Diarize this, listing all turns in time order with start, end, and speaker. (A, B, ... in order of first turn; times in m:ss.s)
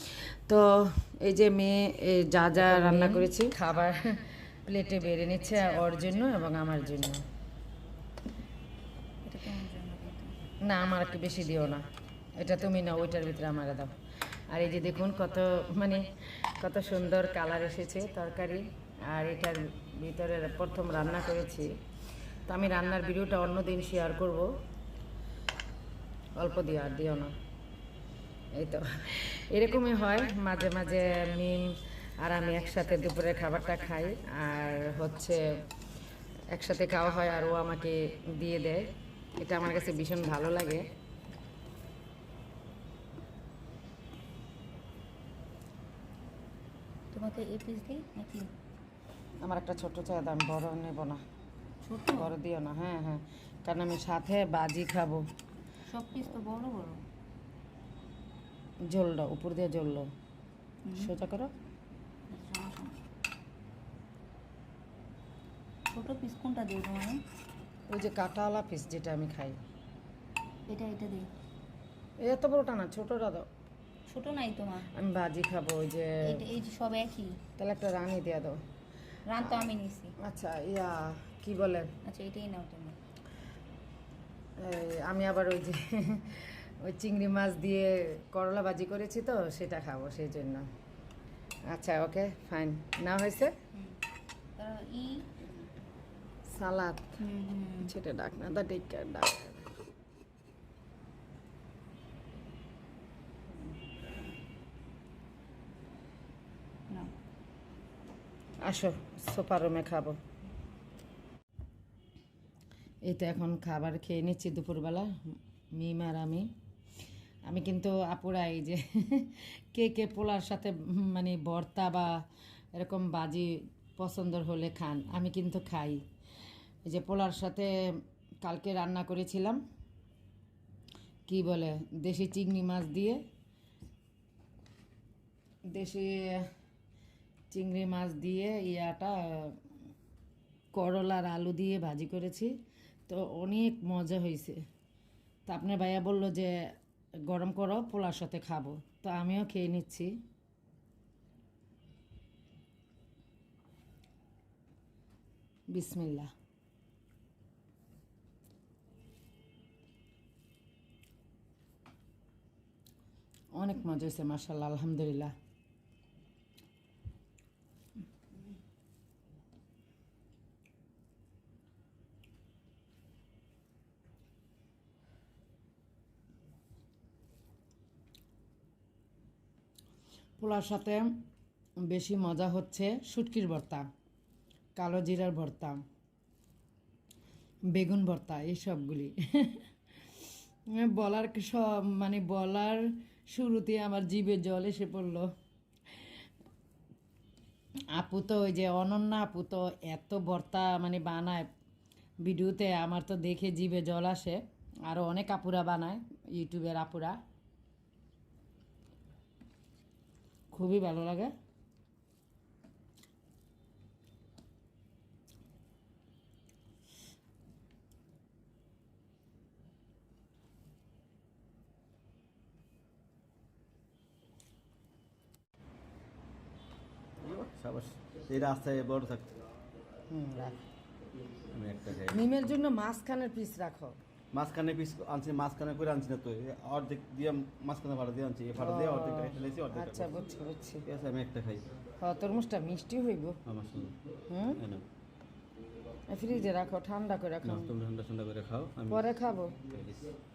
0:00.5-0:07.3 A
0:03.0-0:03.3 B
0:09.2-0:10.4 B
0:10.6-0:14.0 A
0:14.5-0:21.8 A
0:22.5-0:24.6 A
0:26.4-0:27.4 A
0:28.5-0:35.7 A
0:36.5-0:40.9 A
0:47.1-0:48.5 B
0:49.4-0:51.2 A
0:51.8-0:52.3 B
0:52.1-0:55.2 A
0:55.9-0:57.0 B
0:58.8-1:00.1 A
1:00.9-1:01.1 B
1:00.9-1:01.5 A
1:02.3-1:03.0 B
1:05.9-1:07.2 B
1:07.9-1:09.6 A
1:10.7-1:11.3 B
1:12.2-1:13.5 A
1:14.1-1:14.9 B
1:14.9-1:16.4 A
1:16.2-1:17.4 B
1:17.6-1:18.6 A
1:19.3-1:20.2 B
1:19.4-1:21.9 A
1:22.0-1:23.0 B
1:24.6-1:30.7 A
1:31.7-1:33.6 A
1:34.6-1:35.3 B
1:36.5-1:37.2 A
1:37.2-1:37.9 B
1:37.8-1:39.7 A
1:48.6-1:50.2 A
1:53.0-1:55.1 A
1:55.7-1:56.5 A
1:57.5-2:06.0 A
2:06.8-2:07.7 A
2:08.4-2:09.6 A
2:11.3-2:13.2 A
2:15.7-2:16.5 A
2:17.5-2:19.6 A
2:20.7-2:22.6 A
2:23.1-2:24.6 A
2:25.5-2:26.7 A
2:27.3-2:30.2 A
2:35.7-2:36.3 A
2:43.5-2:45.3 A
3:00.4-3:01.1 A
3:01.9-3:03.9 A
3:04.8-3:05.8 A
3:07.7-3:09.6 A
3:10.7-3:15.3 A
3:17.9-3:21.5 A
3:22.2-3:27.2 A
3:30.5-3:31.3 A
3:47.2-3:49.3 C
3:50.1-3:50.6 A
3:51.5-3:52.5 C
3:52.1-3:54.0 A
3:54.3-4:00.2 C
3:58.6-4:00.9 A
4:00.8-4:01.7 C
4:02.0-4:03.4 A
4:03.5-4:04.0 C
4:04.3-4:04.6 A
4:04.6-4:04.9 C
4:06.1-4:07.7 A
4:07.4-4:09.1 C
4:08.9-4:09.6 A
4:09.7-4:10.1 C